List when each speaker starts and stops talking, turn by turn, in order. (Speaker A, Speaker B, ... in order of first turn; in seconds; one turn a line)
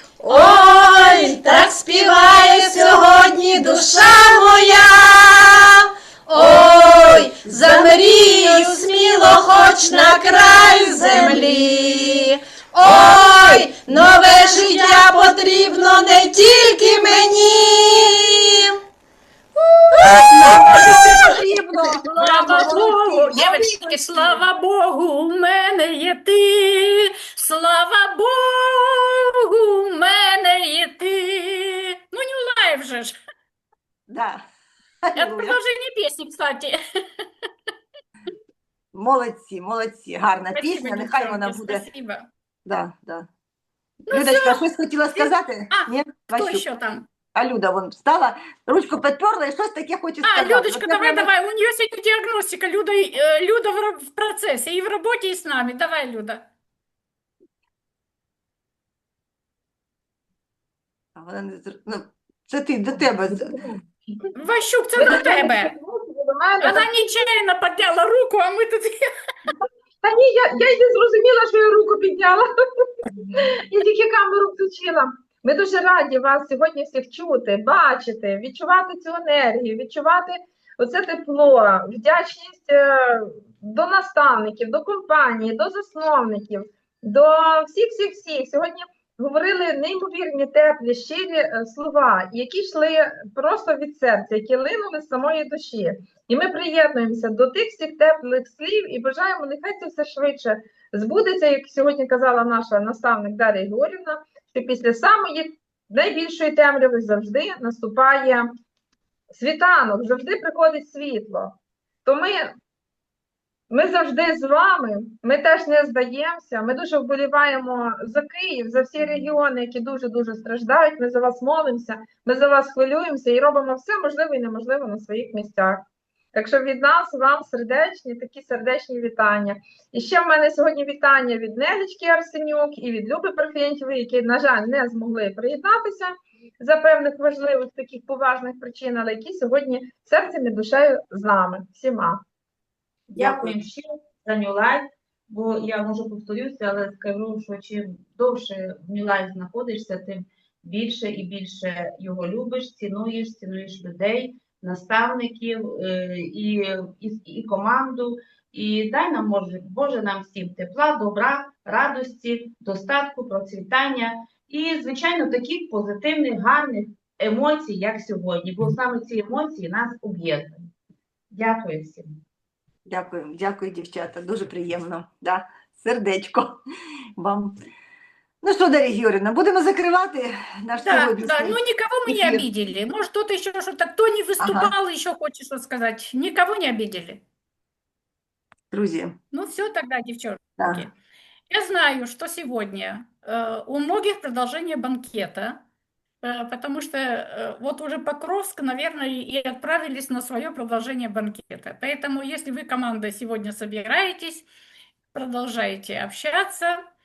Speaker A: 0.2-3.8
Speaker B: 1.4-18.5
Speaker A: 4.3-4.6
Speaker A: 6.3-9.2
Speaker A: 9.7-9.9
Speaker A: 10.9-12.3
Speaker C: 20.4-21.3
Speaker D: 20.4-24.4
Speaker C: 22.2-33.1
Speaker D: 34.1-34.4
Speaker D: 35.1-35.6
Speaker C: 35.1-37.2
Speaker D: 38.9-41.9
Speaker C: 40.5-42.3
Speaker D: 42.7-43.3
Speaker C: 44.1-44.6
Speaker D: 44.1-46.7
Speaker C: 45.1-47.1
Speaker D: 47.3-51.3
Speaker C: 50.2-56.5
Speaker D: 61.2-63.6
Speaker C: 64.3-65.7
Speaker E: 65.0-66.9
Speaker C: 66.6-69.1
Speaker E: 70.0-72.9
Speaker E: 73.4-108.5
Speaker E: 109.3-112.5
Speaker E: 113.7-125.8
Speaker E: 126.3-142.2
Speaker B: 143.1-170.7
Speaker D: 143.2-143.6
Speaker B: 171.3-172.2
Speaker D: 172.9-176.6
Speaker D: 177.2-177.5
Speaker D: 178.4-182.5
Speaker C: 180.8-187.2
Speaker D: 184.4-184.7
Speaker D: 188.7-189.2
Speaker C: 189.3-190.9
Speaker D: 190.6-190.8
Speaker C: 191.5-195.6
Speaker C: 196.2-204.5
Speaker C: 205.1-206.8